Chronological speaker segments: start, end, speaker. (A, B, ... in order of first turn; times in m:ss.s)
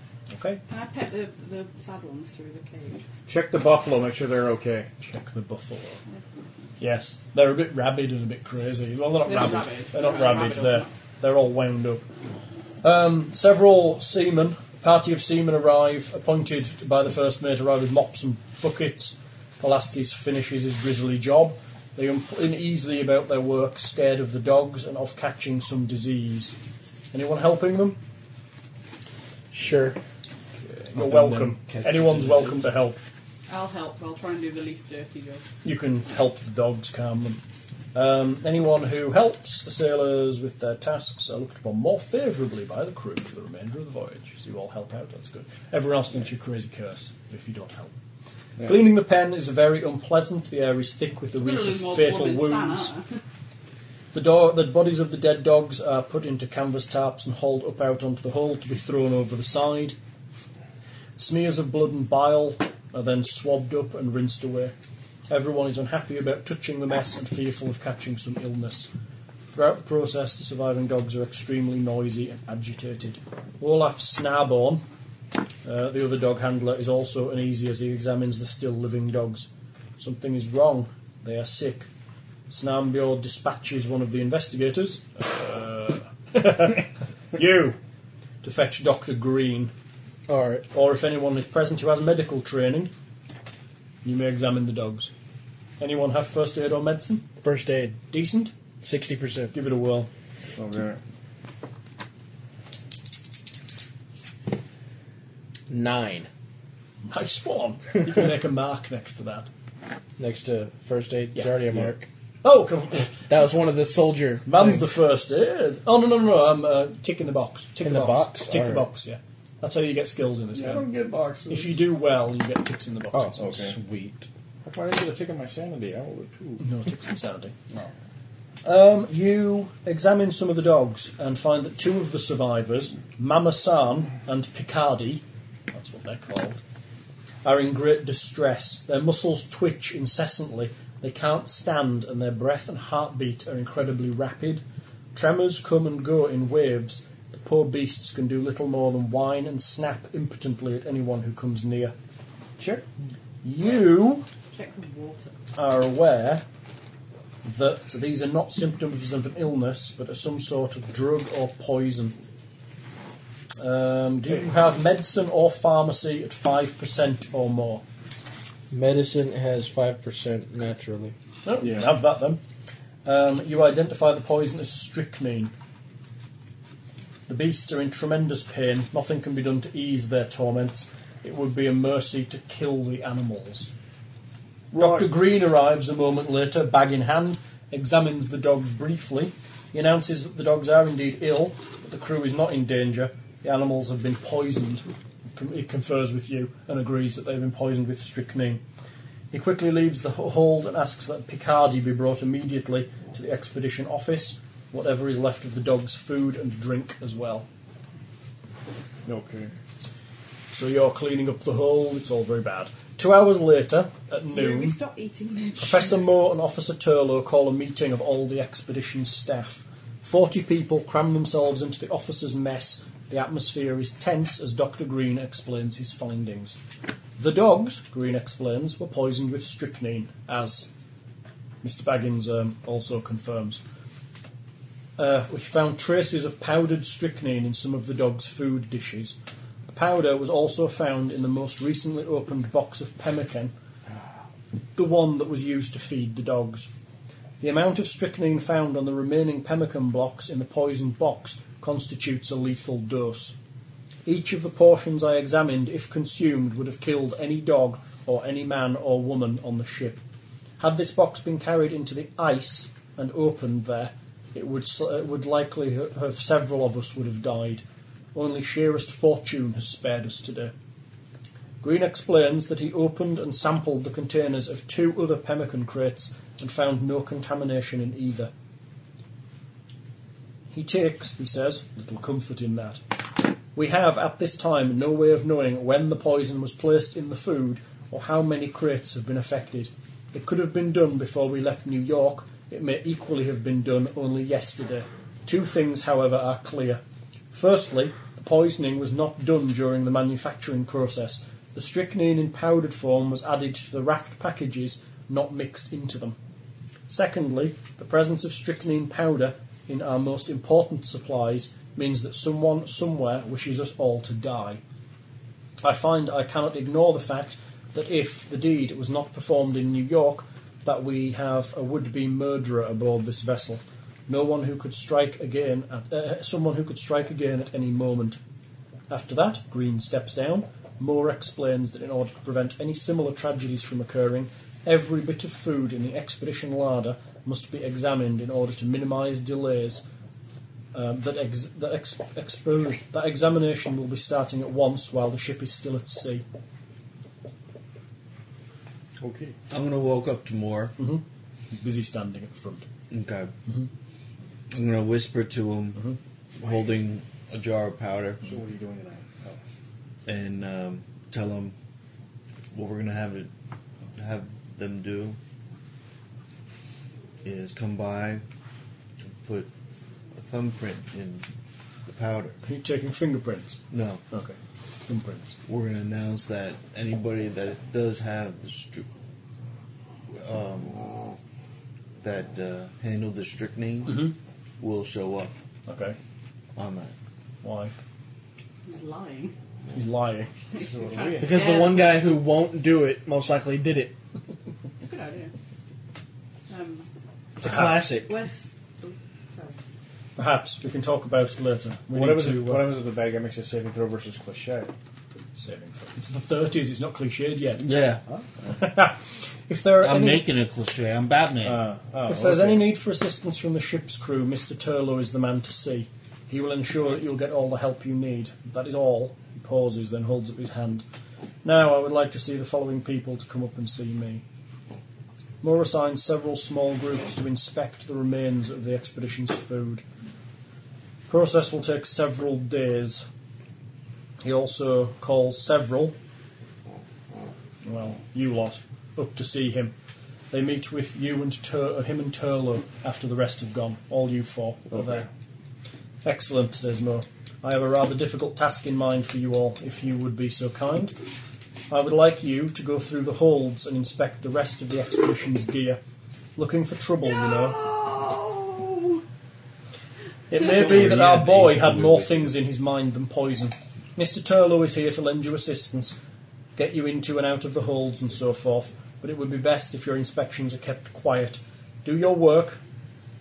0:00.3-0:00.6 A
0:00.7-0:03.0 B
0:03.3-0:04.9 C
0:05.0-0:06.0 A
0:06.8-0:12.0 A
0:09.2-0:10.9 B
0:12.8-0:26.6 A
0:27.1-0:28.0 A
0:29.5-0:30.0 D
0:30.6-0:33.0 A
0:31.0-0:32.6 E
0:33.5-0:35.4 B
0:35.6-0:37.4 A
0:37.9-0:47.9 A
0:48.6-0:52.9 A
0:51.4-0:53.1 B
0:54.1-1:00.0 A
1:01.2-1:04.8 A
1:05.3-1:08.9 A
1:09.5-1:14.8 A
1:15.6-1:21.9 A
1:22.5-1:27.8 A
1:28.4-1:29.7 A
1:30.3-1:30.7 D
1:30.7-1:32.9 A
1:34.0-1:35.1 A
1:35.8-1:37.2 A
1:37.4-1:38.0 D
1:38.1-1:38.5 A
1:38.8-1:39.5 D
1:39.5-1:40.1 A
1:40.6-1:41.0 C
1:45.7-1:46.3 D
1:47.0-1:49.5 A
1:50.2-1:52.1 D
1:52.4-1:53.2 A
1:53.3-1:54.9 D
1:54.5-2:00.9 A
1:57.8-1:58.9 D
2:00.5-2:01.7 C
2:01.5-2:03.5 A
2:03.1-2:04.3 D
2:03.4-2:03.8 C
2:04.6-2:06.6 C
2:06.6-2:07.6 A
2:08.6-2:16.6 A
2:17.4-2:24.6 A
2:25.2-2:32.0 A
2:32.6-2:32.8 C
2:33.4-2:34.3 A
2:34.5-2:35.4 B
2:35.6-2:36.4 A
2:37.4-2:42.2 A
2:43.6-2:47.8 A
2:48.7-2:51.2 D
2:51.4-2:52.4 A
2:51.6-2:51.9 C
2:53.0-2:55.5 A
2:57.3-3:03.7 A
3:04.7-3:05.1 C
3:04.7-3:18.6 A
3:19.3-3:27.5 A
3:29.1-3:29.5 C
3:30.5-3:34.8 A
3:34.3-3:36.1 B
3:35.6-3:46.6 A
3:47.2-3:50.7 A
3:51.6-3:53.6 A
3:55.0-4:03.5 A
4:04.8-4:06.7 A
4:07.4-4:13.4 A
4:14.0-4:20.0 A
4:20.6-4:30.5 A
4:31.6-4:38.3 A
4:40.5-4:42.8 A
4:43.5-4:56.8 A
4:57.3-5:06.2 A
5:06.9-5:14.6 A
5:15.6-5:28.2 A
5:28.9-5:39.8 A
5:40.7-5:46.2 A
5:49.0-5:49.4 C
5:49.5-5:50.8 E
5:50.8-5:52.7 A
5:52.9-5:53.3 E
5:54.5-5:58.3 E
5:58.2-5:59.4 C
6:00.1-6:01.6 E
6:02.5-6:03.3 E
6:04.0-6:05.2 E
6:07.2-6:08.2 E
6:09.1-6:09.5 E
6:10.1-6:11.3 E
6:11.9-6:12.4 E
6:12.4-6:13.6 A
6:13.7-6:14.0 E
6:14.1-6:15.4 A
6:15.5-6:18.9 E
6:20.1-6:20.9 E
6:22.0-6:25.3 E
6:23.9-6:24.1 A
6:25.7-6:26.0 A
6:26.6-6:26.9 E
6:27.4-6:27.7 A
6:28.7-6:29.3 B
6:29.7-6:30.3 A
6:30.5-6:32.3 B
6:30.6-6:31.4 C
6:31.2-6:34.0 D
6:34.8-6:35.3 B
6:36.5-6:36.9 B
6:37.4-6:38.1 D
6:37.4-6:37.9 A
6:37.8-6:39.6 B
6:40.2-6:42.7 A
6:41.9-6:44.7 C
6:45.4-6:47.7 A
6:47.6-6:48.0 E
6:48.1-6:48.5 C
6:48.5-6:50.3 A
6:49.8-6:51.6 E
6:51.4-6:52.7 C
6:52.1-7:00.8 A
7:01.4-7:04.2 A
7:05.4-7:09.8 A
7:11.1-7:13.1 A
7:14.2-7:16.0 A
7:17.6-7:19.8 A
7:20.3-7:25.1 A
7:24.7-7:25.1 C
7:26.0-7:30.9 A
7:31.7-7:35.8 A
7:36.4-7:37.7 A
7:37.1-7:39.0 B
7:40.3-7:46.0 A
7:40.3-7:42.3 E
7:46.6-7:52.6 A